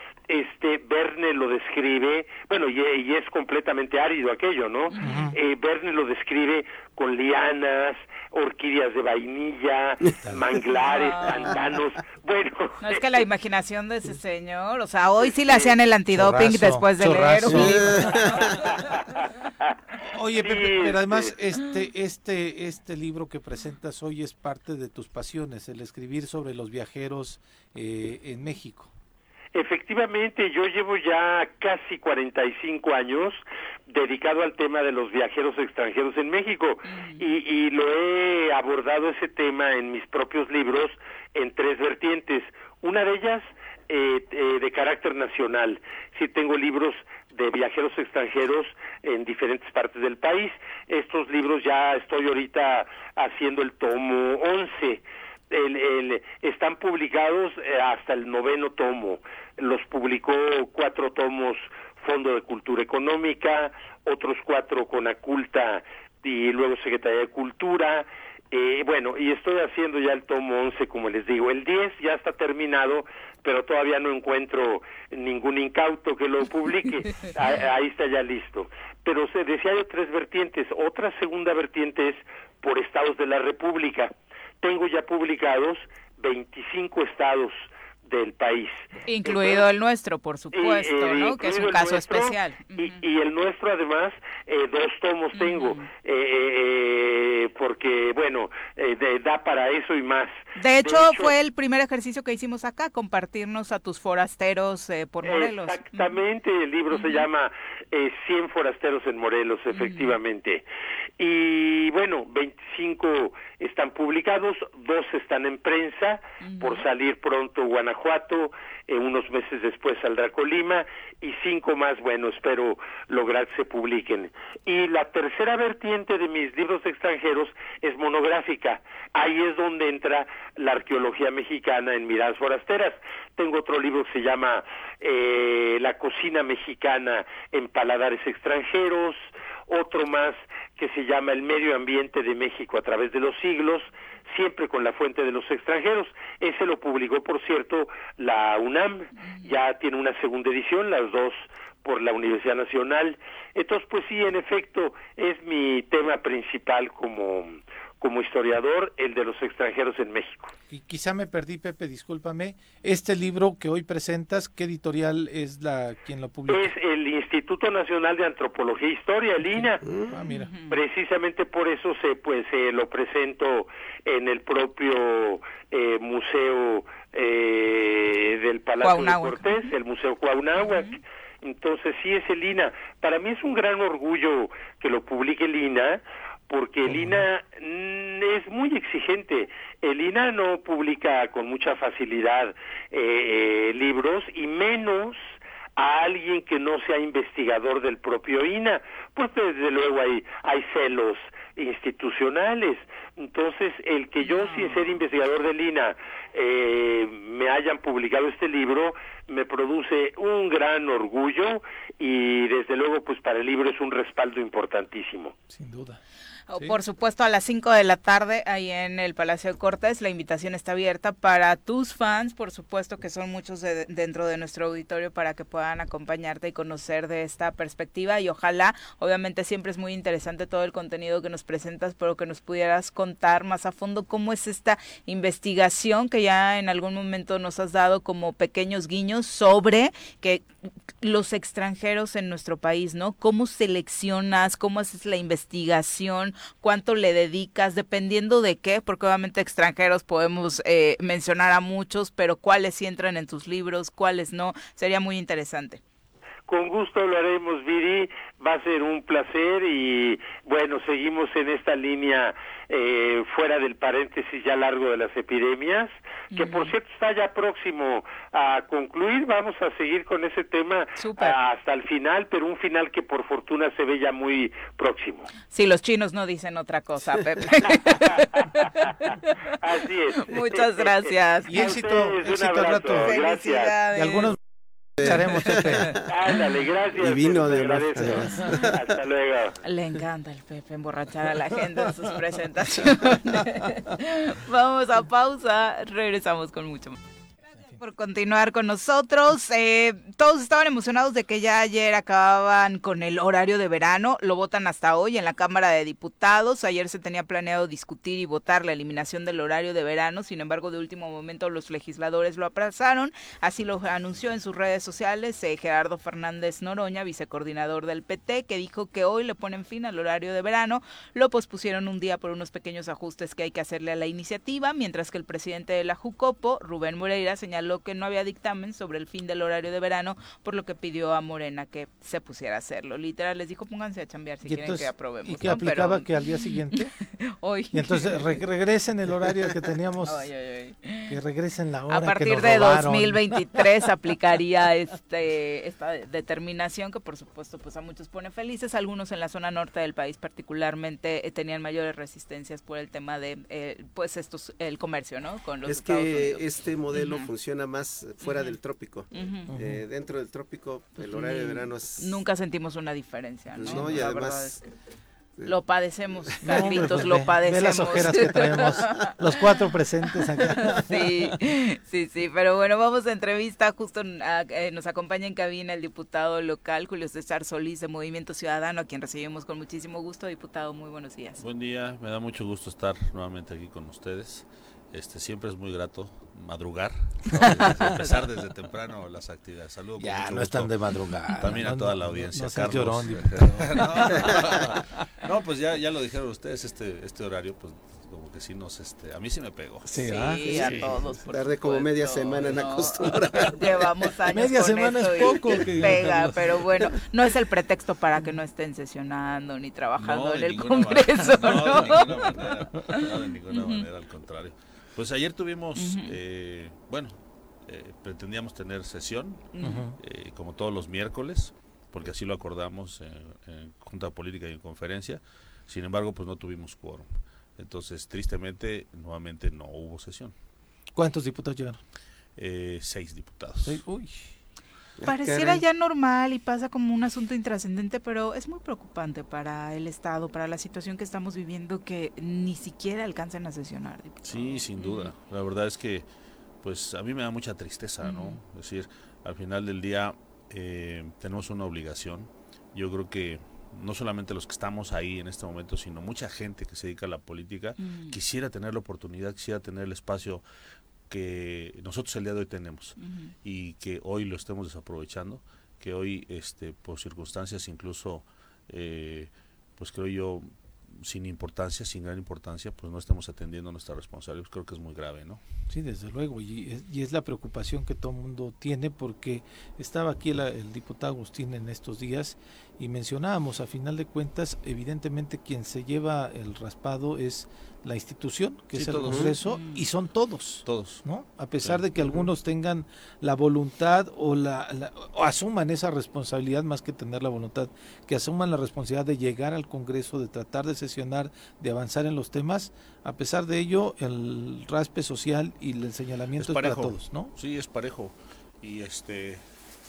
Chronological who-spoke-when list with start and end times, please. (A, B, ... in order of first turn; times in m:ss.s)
0:00.3-0:13.2 A
0:04.9-0:05.4 B
0:05.0-0:05.3 C
0:10.8-0:11.6 B
0:12.8-0:18.0 B
0:16.1-0:18.2 C
0:17.5-0:18.8 D
0:20.0-0:28.9 C
0:20.4-0:21.3 A
0:29.6-1:29.7 A
0:36.8-0:37.3 B
1:29.1-1:33.0 B
1:30.5-1:41.3 A
1:35.3-1:35.9 B
1:40.6-1:46.2 B
1:45.2-1:50.6 A
1:46.9-1:47.3 B
1:49.7-1:50.2 B
1:51.2-2:40.5 A
1:56.4-1:56.8 B
2:29.2-2:29.5 B
2:40.7-2:46.7 C
2:46.5-2:49.8 A
2:49.5-2:50.5 C
2:49.8-2:50.2 D
2:50.2-2:50.8 B
2:50.7-3:15.2 A
2:58.8-2:59.7 B
3:00.6-3:01.0 B
3:06.9-3:07.2 C
3:15.8-3:35.3 A
3:24.2-3:25.0 B
3:35.5-3:36.0 C
3:36.5-4:00.4 B
4:01.0-4:15.8 B
4:16.5-4:35.3 A
4:26.3-4:26.7 B
4:31.0-4:31.4 B
4:35.5-4:39.6 B
4:39.1-4:43.8 A
4:40.2-4:41.8 B
4:41.5-4:43.1 C
4:43.0-4:44.3 B
4:44.0-4:44.4 C
4:45.0-4:45.9 C
4:45.0-4:46.0 D
4:45.8-4:46.4 B
4:46.1-4:49.6 A
4:47.0-4:48.8 D
4:48.2-4:48.6 B
4:49.6-4:57.0 B
4:57.6-5:36.2 B
5:34.4-5:36.9 C
5:36.7-5:38.3 B
5:37.7-5:40.3 C
5:40.0-5:41.2 B
5:41.1-5:43.6 C
5:41.9-5:57.3 B
5:55.6-6:02.2 D
5:58.2-5:58.6 B
5:59.1-5:59.5 B
5:59.5-5:59.8 C
6:01.0-6:04.6 B
6:03.6-6:04.6 D
6:03.6-6:04.0 C
6:05.4-6:21.4 B
6:06.2-6:07.0 D
6:06.4-6:11.3 C
6:08.1-6:09.1 D
6:21.4-6:30.8 E
6:30.0-6:34.5 C
6:31.3-6:39.9 E
6:39.9-6:40.6 C
6:39.9-6:43.9 D
6:40.0-6:53.8 B
6:40.5-6:41.0 E
6:44.3-6:46.8 C
6:50.0-7:10.3 E
6:55.8-6:56.2 B
6:59.5-6:59.8 B
6:59.6-7:00.0 C
7:11.0-7:11.8 C
7:12.4-7:13.8 E
7:13.6-7:14.3 C
7:15.0-7:15.6 D
7:15.1-7:25.1 B
7:24.2-7:26.1 E
7:26.6-7:40.4 E
7:28.0-7:28.4 B
7:37.8-7:38.2 B
7:41.1-7:55.4 E
7:43.0-7:43.3 B
7:55.7-8:27.3 C
8:08.7-8:09.3 E
8:09.0-8:09.4 D
8:09.4-8:09.8 B
8:10.6-8:11.0 E
8:11.6-8:11.9 E
8:26.4-8:29.4 E